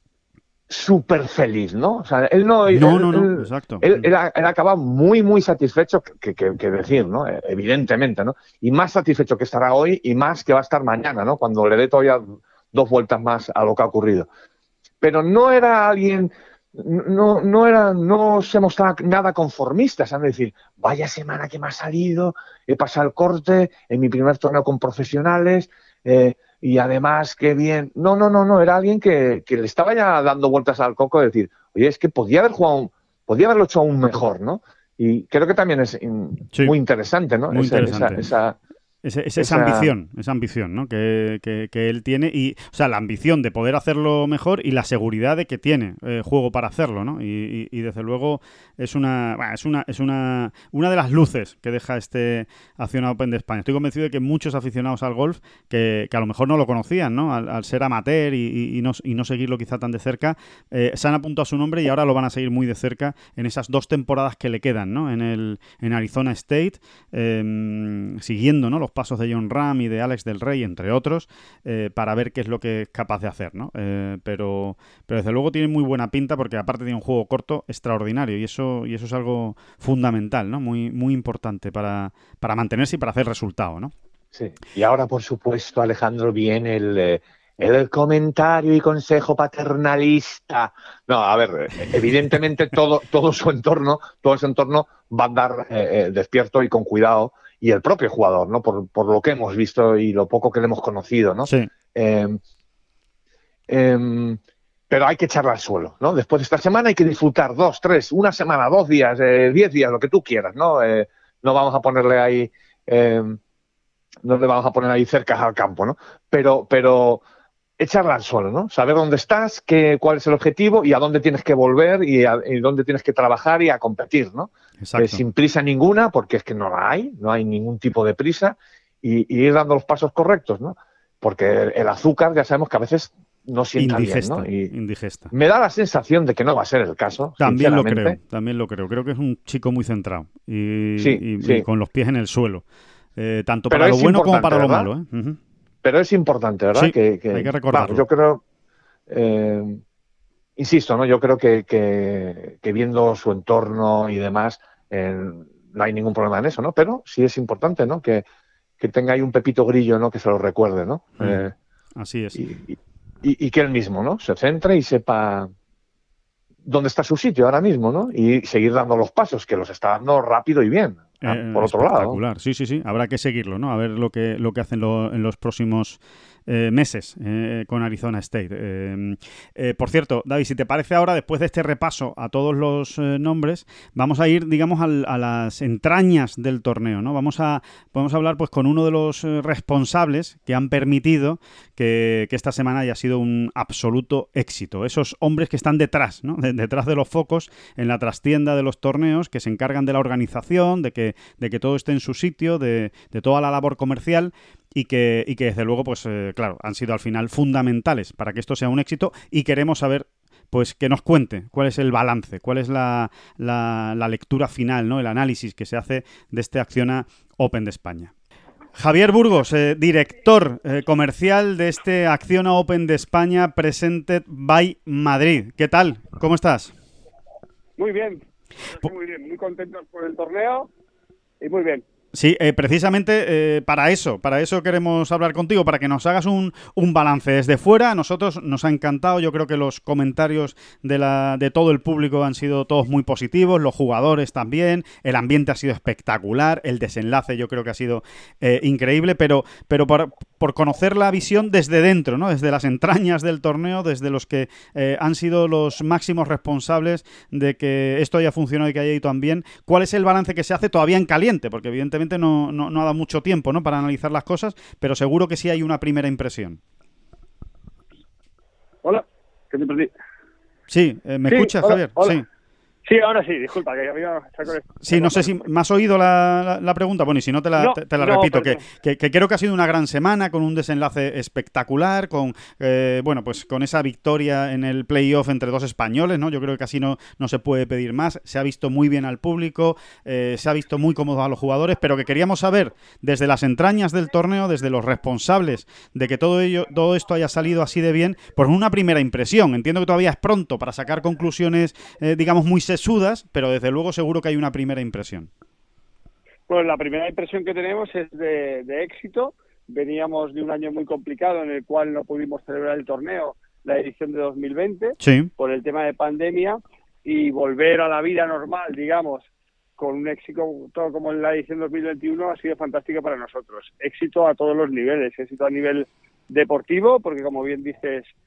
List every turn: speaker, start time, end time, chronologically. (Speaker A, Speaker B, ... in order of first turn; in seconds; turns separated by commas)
Speaker A: 0.7-14.3, Speaker B: 2.7-4.1, Speaker A: 15.0-38.6, Speaker B: 37.5-38.2, Speaker B: 39.0-83.9, Speaker A: 39.4-39.9, Speaker A: 84.3-102.4, Speaker A: 103.7-104.4, Speaker A: 104.9-113.4, Speaker A: 114.2-117.2, Speaker A: 117.8-134.7, Speaker B: 124.8-125.2, Speaker B: 133.8-135.3, Speaker A: 135.3-138.2, Speaker B: 137.4-142.6, Speaker A: 141.0-141.7, Speaker B: 143.2-145.4, Speaker A: 143.7-144.9, Speaker A: 145.8-148.4, Speaker B: 146.8-148.0, Speaker A: 149.1-149.8, Speaker A: 150.6-158.2, Speaker A: 158.8-161.5, Speaker B: 162.0-162.4, Speaker A: 162.3-165.5, Speaker A: 166.7-172.2, Speaker B: 171.2-218.1, Speaker B: 218.8-226.7, Speaker C: 227.8-230.7, Speaker C: 231.4-231.8, Speaker B: 232.1-266.6, Speaker C: 268.8-269.9, Speaker B: 270.7-272.2, Speaker C: 271.3-272.2, Speaker C: 272.9-275.4, Speaker B: 274.8-305.3, Speaker C: 277.6-278.6, Speaker C: 306.5-319.3, Speaker B: 315.0-315.3, Speaker C: 319.8-328.1